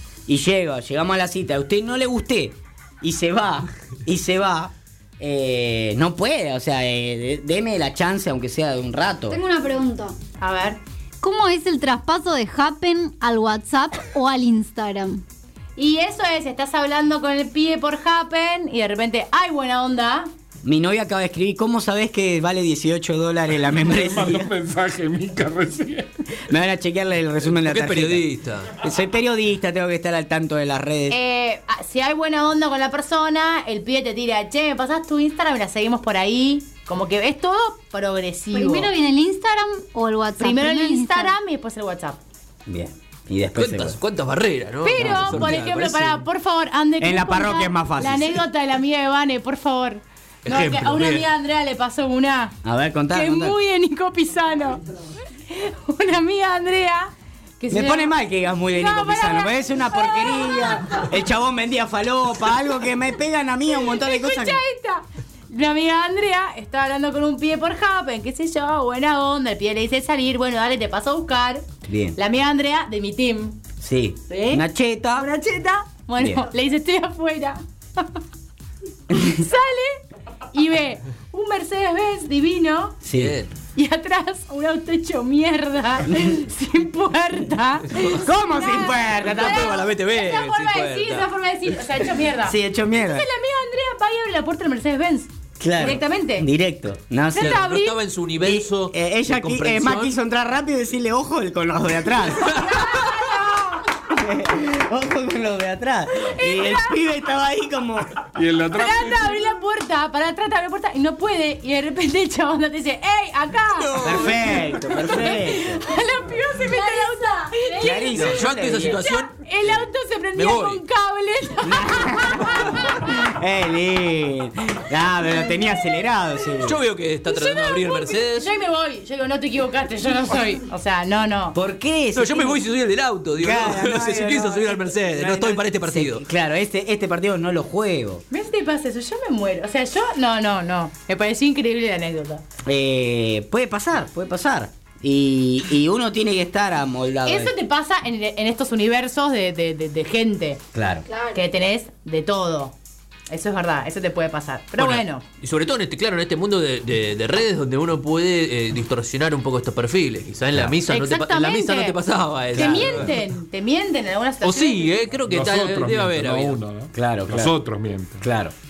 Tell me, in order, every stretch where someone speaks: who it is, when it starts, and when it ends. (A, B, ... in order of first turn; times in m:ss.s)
0:00.3-0:09.4 A
0:09.3-0:10.2 B
0:10.4-0:10.8 C
0:11.2-0:15.2 B
0:15.8-0:20.3 C
0:20.6-0:24.5 A
0:23.8-0:26.1 D
0:26.5-0:28.2 A
0:27.5-0:28.7 E
0:28.8-0:31.2 A
0:31.1-0:38.9 C
0:38.5-0:41.3 B
0:40.4-0:42.2 C
0:42.6-0:44.0 A
0:43.6-0:46.2 E
0:44.8-0:52.6 C
0:45.0-0:45.5 A
0:47.0-0:48.4 A
0:50.4-0:51.3 E
0:52.6-0:53.6 A
0:53.1-0:54.8 C
0:55.5-0:58.1 C
0:57.7-1:04.6 A
0:58.7-1:01.1 C
1:03.7-1:13.6 C
1:11.8-1:12.2 A
1:13.8-1:15.3 A
1:14.3-1:14.6 C
1:15.1-1:18.2 C
1:16.2-1:16.4 A
1:19.1-1:20.0 C
1:20.5-1:23.0 C
1:23.0-1:23.4 A
1:23.1-1:23.5 E
1:23.7-1:36.5 C
1:27.9-1:28.2 E
1:28.1-1:29.8 A
1:29.2-1:32.0 E
1:32.4-1:33.2 A
1:35.6-1:37.7 A
1:37.3-1:38.0 C
1:37.4-1:40.1 E
1:38.4-1:42.7 A
1:42.5-1:43.9 C
1:44.1-1:48.1 A
1:46.1-1:47.0 C
1:48.3-1:49.5 D
1:48.7-1:58.2 C
1:53.8-1:54.7 E
1:54.0-1:55.8 A
1:56.5-1:58.4 B
1:57.8-1:59.0 A
1:58.1-1:59.4 E
1:58.7-2:03.2 C
2:00.3-2:00.8 E
2:01.6-2:06.8 A
2:06.6-2:08.5 E
2:07.2-2:11.6 C
2:11.5-2:12.6 A
2:12.1-2:16.2 E
2:13.4-2:18.2 A
2:18.3-2:22.4 C
2:22.6-2:27.5 A
2:27.2-2:30.6 C
2:30.7-2:31.1 A
2:31.1-2:31.5 B
2:31.3-2:32.7 C
2:33.3-2:35.2 C
2:34.8-2:43.2 E
2:40.9-2:42.0 C
2:42.5-2:45.1 C
2:42.5-2:43.1 A
2:44.4-2:46.6 E
2:45.3-2:48.2 D
2:46.9-2:47.5 A
2:48.2-2:48.5 A